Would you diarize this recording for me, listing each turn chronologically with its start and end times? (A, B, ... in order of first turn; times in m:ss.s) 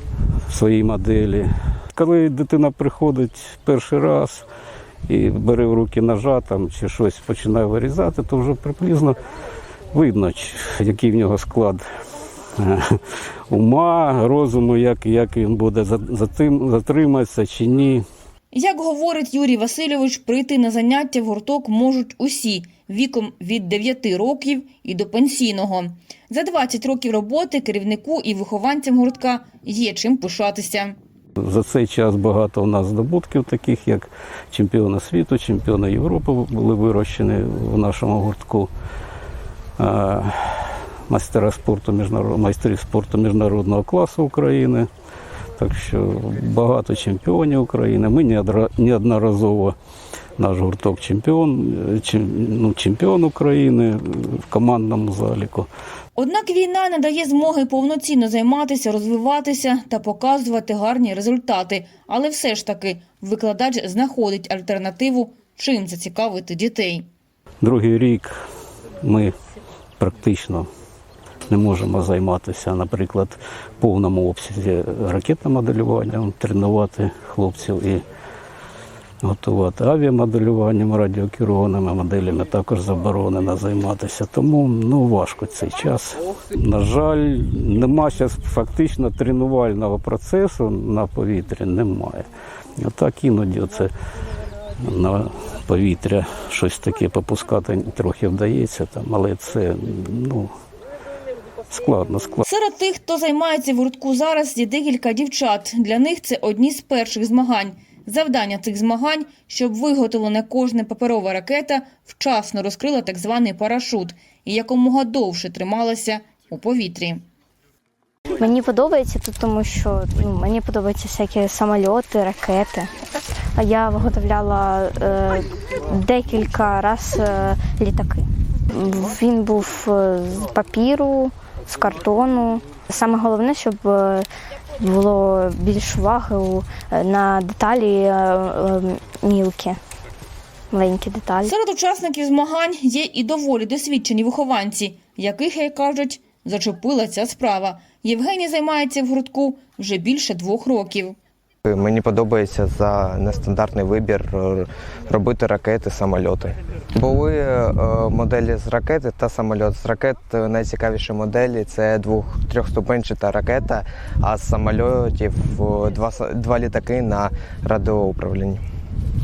0:00.5-0:04.4 A
0:05.1-0:09.2 A
0:09.9-0:11.8 A
0:12.6-0:12.8 A
0:13.5-0:18.0 A
0:18.5-0:30.9 B
0:31.4-0:38.7 A
0:39.8-0:44.9 A
0:45.6-0:49.7 A
0:50.4-0:55.7 A
0:56.2-1:07.1 B
1:07.6-1:08.4 A
1:09.0-1:09.3 A
1:10.0-1:10.7 A
1:11.5-1:18.0 A
1:19.2-1:32.3 A
1:32.8-1:33.9 A
1:34.8-1:40.5 A
1:41.7-1:42.4 A
1:42.5-1:57.2 B
1:58.4-2:02.9 C
2:03.6-2:14.3 C
2:14.8-2:19.8 C
2:20.7-2:21.5 C
2:21.4-2:31.1 B
2:31.6-2:48.6 D